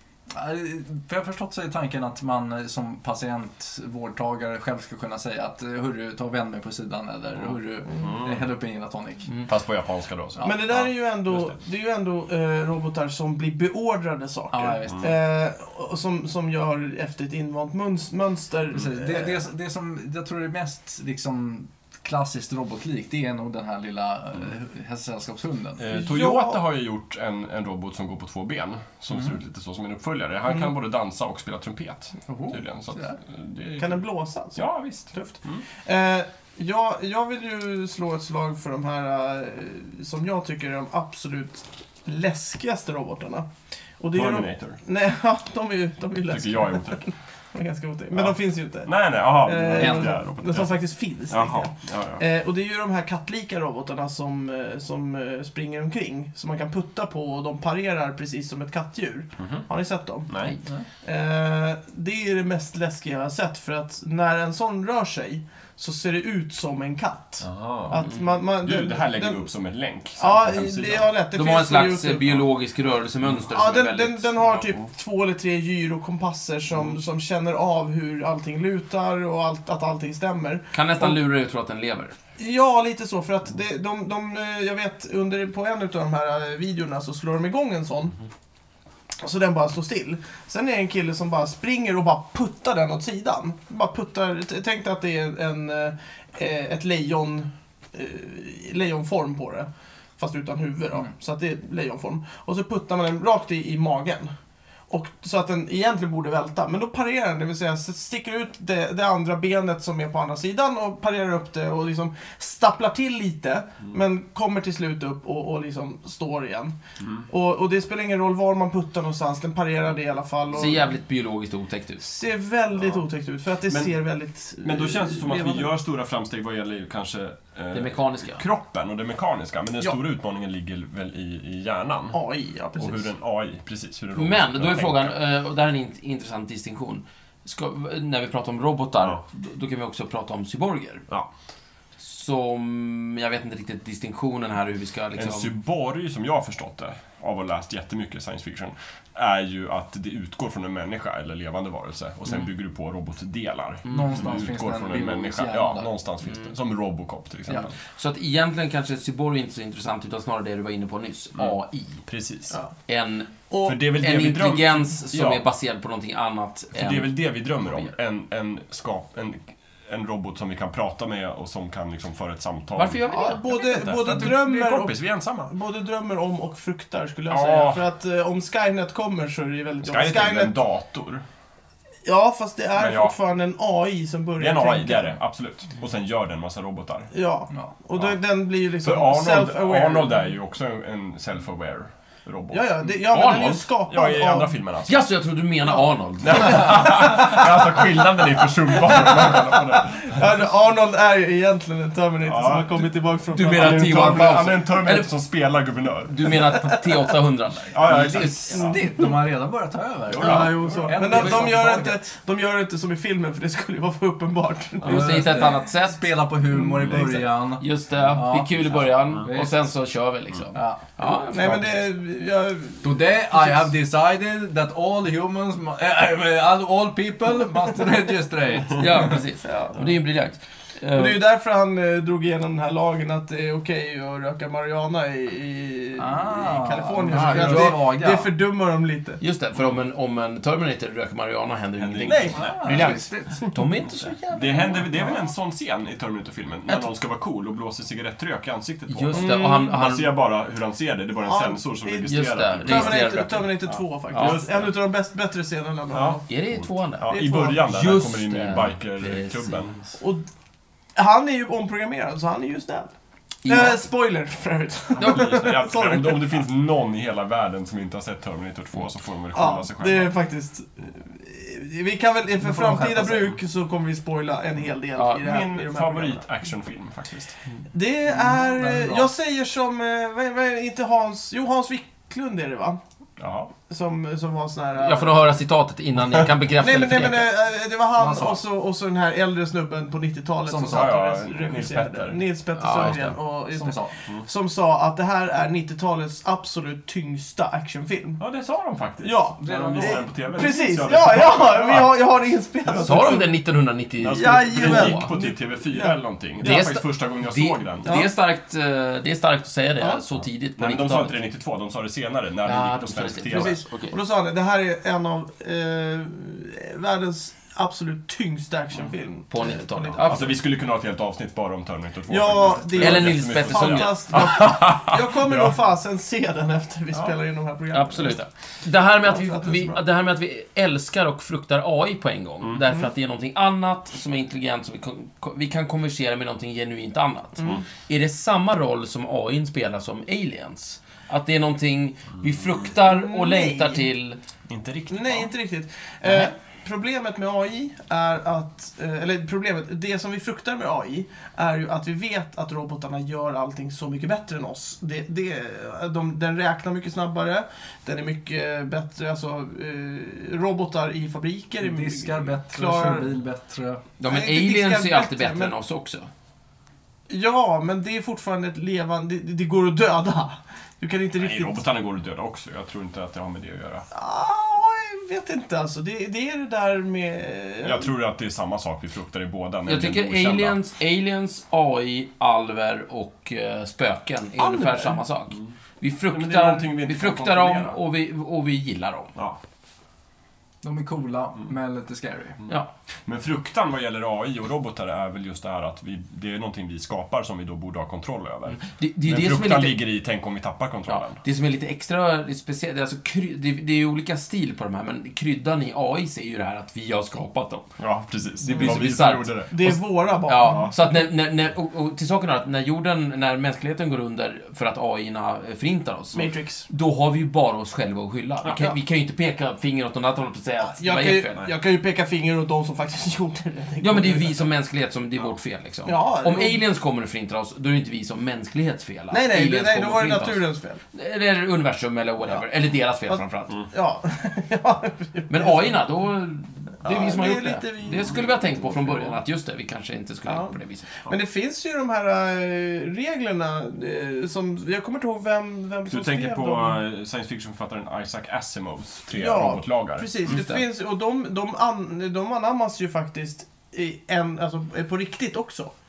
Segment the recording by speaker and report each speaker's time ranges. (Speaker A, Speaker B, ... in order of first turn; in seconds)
Speaker A: 0.3-9.4, 14.5-15.1, 18.7-25.8, 29.1-29.4, 49.7-50.2, 153.9-155.9, 207.8-212.0, 214.8-219.5, 220.5-220.8, 222.8-229.2, 235.9-238.3, 242.3-243.6, 272.4-273.4, 278.1-279.1, 287.9-288.4, 290.4-290.9, 293.5-293.9, 299.4-300.4, 361.6-363.8, 390.6-392.4
Speaker B: 7.9-8.4, 9.5-11.6, 25.8-34.0, 34.5-35.6, 44.1-44.8, 46.3-47.0, 48.1-52.2, 59.4-59.6, 60.3-60.5, 67.4-68.0, 68.6-71.1, 117.0-117.2, 122.7-123.0, 123.7-123.9, 124.6-132.2, 132.8-135.1, 145.2-157.7, 161.4-162.6, 163.6-165.4, 166.7-175.5, 177.3-177.8, 179.8-181.2, 182.8-183.2, 184.4-187.1, 187.9-188.2, 188.8-195.0, 196.2-200.3, 202.2-202.9, 203.5-206.4, 207.7-208.8, 210.1-211.3, 216.6-217.0, 218.9-219.3, 241.8-242.6, 244.3-254.7, 255.9-259.7, 265.0-270.1, 275.2-277.4, 283.2-283.5, 290.6-292.2, 298.2-302.0, 302.6-303.3, 304.0-307.9, 310.6-313.6, 320.0-325.6, 344.5-345.3, 371.2-373.9, 377.6-380.6, 386.1-387.8, 393.1-401.2, 407.8-409.5, 410.4-410.7, 445.9-450.4
Speaker C: 10.4-19.4, 25.9-26.6, 33.8-43.5, 44.0-60.4, 61.0-69.4, 70.2-72.3, 73.5-81.2, 82.4-88.2, 89.2-104.3, 104.9-116.7, 117.3-120.9, 122.0-125.7, 132.1-133.1, 163.5-163.8, 173.1-180.6, 182.0-185.1, 187.1-190.3, 192.5-194.5, 196.3-204.4, 206.5-206.9, 210.2-215.5, 216.9-217.2, 221.3-223.7, 229.4-229.9, 230.9-239.2, 242.1-242.9, 243.9-245.1, 249.1-249.8, 251.2-256.2, 257.1-257.5, 260.0-260.2, 260.9-262.9, 263.4-266.4, 269.3-276.2, 277.7-282.8, 283.7-285.4, 286.6-298.2, 299.0-303.3, 304.1-306.8, 307.8-308.1, 313.3-320.4, 322.1-328.2, 329.0-329.8, 337.4-337.6, 342.8-343.9, 344.9-363.1, 364.0-365.5, 367.1-371.6, 373.9-377.9, 384.4-385.0, 408.5-408.8, 409.5-410.8, 416.1-416.7, 418.5-418.8, 420.6-424.4, 425.8-426.6, 429.1-430.8, 433.1-435.8, 436.8-439.1, 440.2-446.8, 449.1-455.7
Speaker D: 71.3-74.6, 80.7-82.1, 120.5-122.0, 127.7-128.4, 134.1-141.0, 142.0-145.5, 153.8-154.2, 156.2-156.5, 157.9-162.0, 162.9-167.9, 172.7-174.2, 193.1-193.5, 194.9-196.9, 203.3-205.1, 206.1-208.8, 211.1-211.5, 214.8-216.1, 217.5-221.6, 228.8-231.2, 237.1-237.8, 239.2-244.2, 248.9-250.1, 252.0-254.4, 256.3-259.9, 263.4-263.8, 265.0-265.3, 274.9-275.2, 284.8-287.3, 292.6-293.1, 302.8-305.1, 306.4-311.2, 312.4-313.9, 319.3-320.4, 322.8-324.3, 327.7-344.2, 346.0-346.3, 364.0-366.1, 379.7-389.1, 398.5-399.8, 400.9-407.7, 408.4-421.5, 423.8-433.6, 435.3-441.1, 450.2-450.6